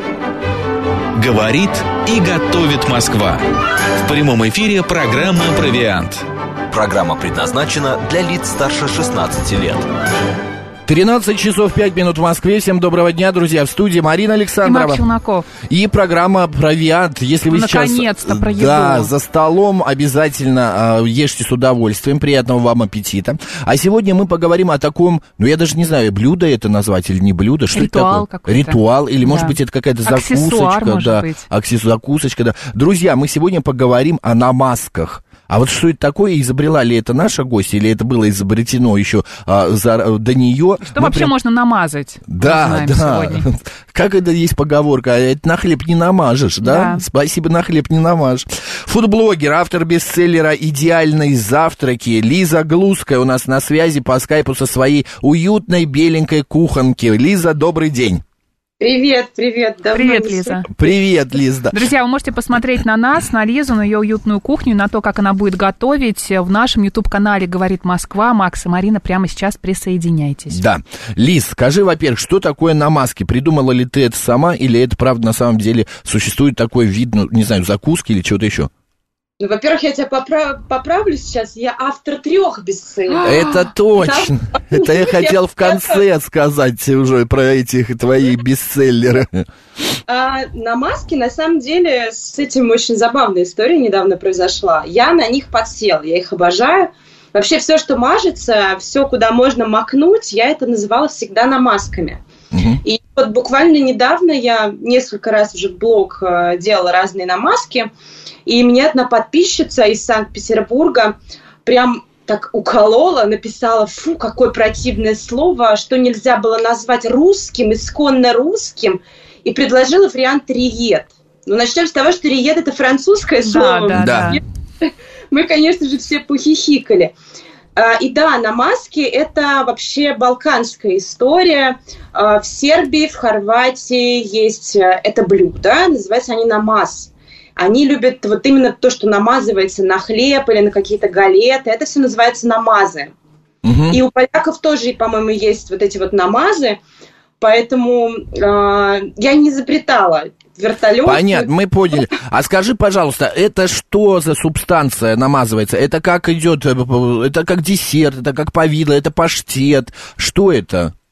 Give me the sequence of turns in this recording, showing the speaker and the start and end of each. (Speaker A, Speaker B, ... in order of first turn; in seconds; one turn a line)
Speaker A: 1.1-3.4
Speaker A: 4.0-6.2
Speaker B: 6.7-9.8
Speaker C: 10.9-15.0
Speaker D: 14.6-15.5
Speaker C: 15.6-41.3
Speaker D: 17.5-19.1
Speaker D: 27.7-31.4
Speaker D: 40.9-43.5
Speaker C: 42.3-58.2
Speaker D: 46.6-47.0
Speaker E: 58.8-60.7
Speaker D: 59.9-60.7
Speaker C: 60.7-61.8
Speaker D: 61.7-70.6
Speaker C: 70.5-78.7
Speaker E: 79.4-83.4
Speaker D: 83.2-83.6
Speaker C: 83.2-89.4
Speaker E: 84.0-86.0
Speaker E: 90.1-102.2
Speaker C: 102.5-102.8
Speaker E: 102.8-107.9
Speaker E: 108.5-124.1
Speaker D: 123.4-124.4
Speaker C: 124.0-124.4
Speaker E: 124.8-127.1
Speaker E: 127.8-143.1
Speaker C: 143.6-144.0
Speaker E: 143.9-146.8
Speaker E: 147.4-151.5
Speaker C: 151.0-160.9